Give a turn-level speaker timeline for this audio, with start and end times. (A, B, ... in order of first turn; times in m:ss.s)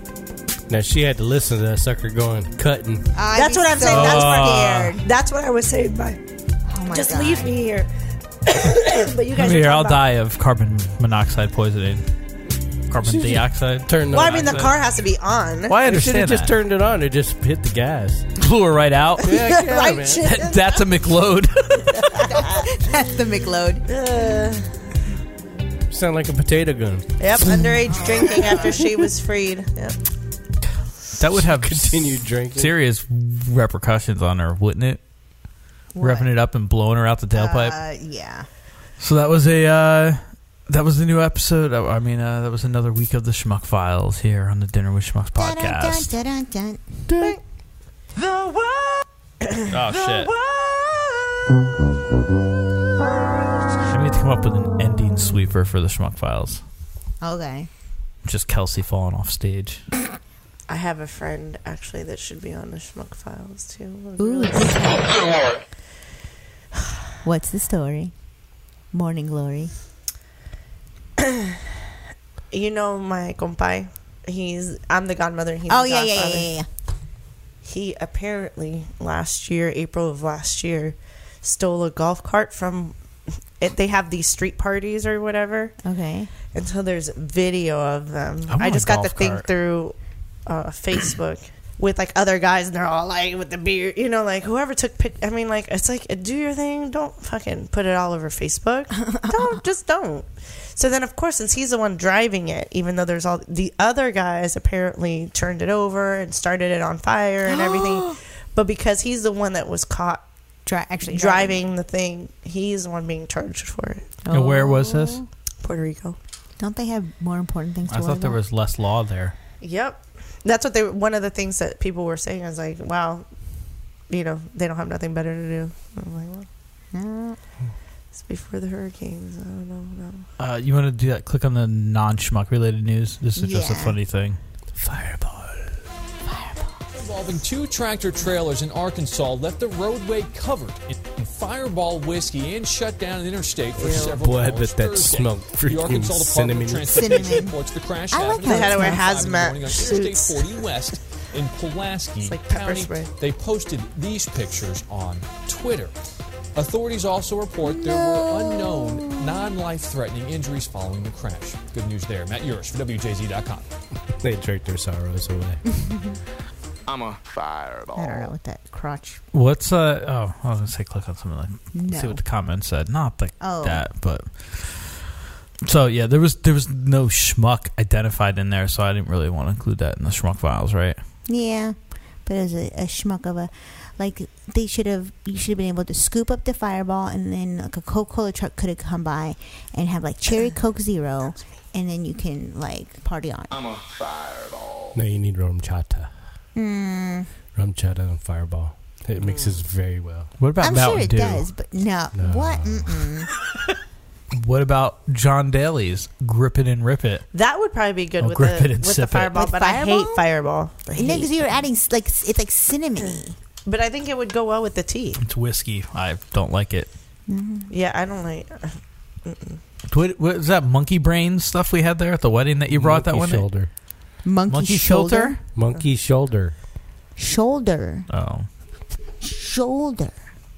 0:00.7-0:03.1 A
0:03.1-0:05.1 B
0:03.3-0:06.2 C
0:03.9-0:04.9 D
0:06.7-0:07.6 B
0:06.9-0:07.9 C
0:08.5-0:10.0 C
0:09.4-0:12.1 D
0:12.9-0:14.7 D
0:13.0-0:14.6 A
0:14.1-0:15.8 C
0:15.7-0:16.6 D
0:15.8-0:18.3 A
0:18.4-0:21.9 D
0:19.2-0:20.2 A
0:19.3-0:20.8 C
0:22.0-0:22.6 C
0:22.2-0:23.9 B
0:23.9-0:24.7 C
0:25.9-0:27.1 A
0:27.2-0:30.0 C
0:27.5-0:28.7 B
0:31.2-0:35.0 D
0:31.3-0:32.7 A
0:35.9-0:36.3 B
0:36.0-0:37.8 D
0:37.3-0:38.5 B
0:39.0-0:46.1 D
0:45.4-0:46.9 B
0:48.2-0:51.4 C
0:49.7-0:50.3 D
0:53.9-0:56.6 D
0:57.2-0:57.7 B
0:58.2-0:59.8 D
1:00.7-1:04.9 C
1:04.2-1:05.1 B
1:07.2-1:08.1 B
1:08.9-1:09.7 B
1:11.2-1:11.6 C
1:12.5-1:16.5 C
1:15.7-1:16.6 B
1:17.6-1:23.0 C
1:23.6-1:25.8 C
1:25.8-1:26.3 B
1:26.5-1:29.9 C
1:28.5-1:29.4 D
1:30.4-1:50.2 C
1:39.1-1:39.6 B
1:47.4-1:48.1 B
1:50.6-1:51.6 B
1:51.1-1:54.1 C
1:54.2-1:55.3 B
1:54.3-1:55.2 D
1:55.6-1:56.2 C
1:56.6-1:58.4 B
1:57.9-1:59.4 D
1:59.6-2:03.3 C
2:04.1-2:06.5 C
2:06.9-2:07.4 B
2:08.2-2:10.3 C
2:10.4-2:15.5 D
2:13.4-2:14.0 B
2:16.3-2:16.8 B
2:16.9-2:35.9 E
2:23.8-2:27.1 A
2:23.8-2:24.2 C
2:26.8-2:29.1 B
2:28.4-2:30.5 C
2:32.2-2:33.1 C
2:36.6-2:43.7 E
2:37.6-2:39.6 B
2:44.2-2:45.6 A
2:45.7-2:46.2 B
2:47.9-2:49.2 B
2:49.3-2:55.1 D
2:51.7-2:52.2 B
2:53.4-2:53.8 B
2:55.6-3:01.0 D
3:01.3-3:13.5 B
3:14.9-3:16.1 A
3:16.5-3:17.3 B
3:17.6-3:20.3 A
3:19.2-3:19.6 C
3:20.4-3:21.4 D
3:20.6-3:23.3 B
3:22.1-3:23.0 A
3:24.3-3:27.3 D
3:27.3-3:31.6 C
3:28.2-3:29.4 D
3:29.3-3:30.2 B
3:30.9-3:33.4 B
3:33.6-3:35.2 C
3:35.2-3:36.9 D
3:37.3-3:37.7 B
3:37.7-3:39.6 C
3:39.9-3:43.5 D
3:42.7-3:43.7 A
3:44.2-3:45.4 B
3:44.5-3:45.4 D
3:45.6-3:46.5 A
3:47.2-3:48.1 B
3:48.1-3:48.5 D
3:49.2-3:50.2 B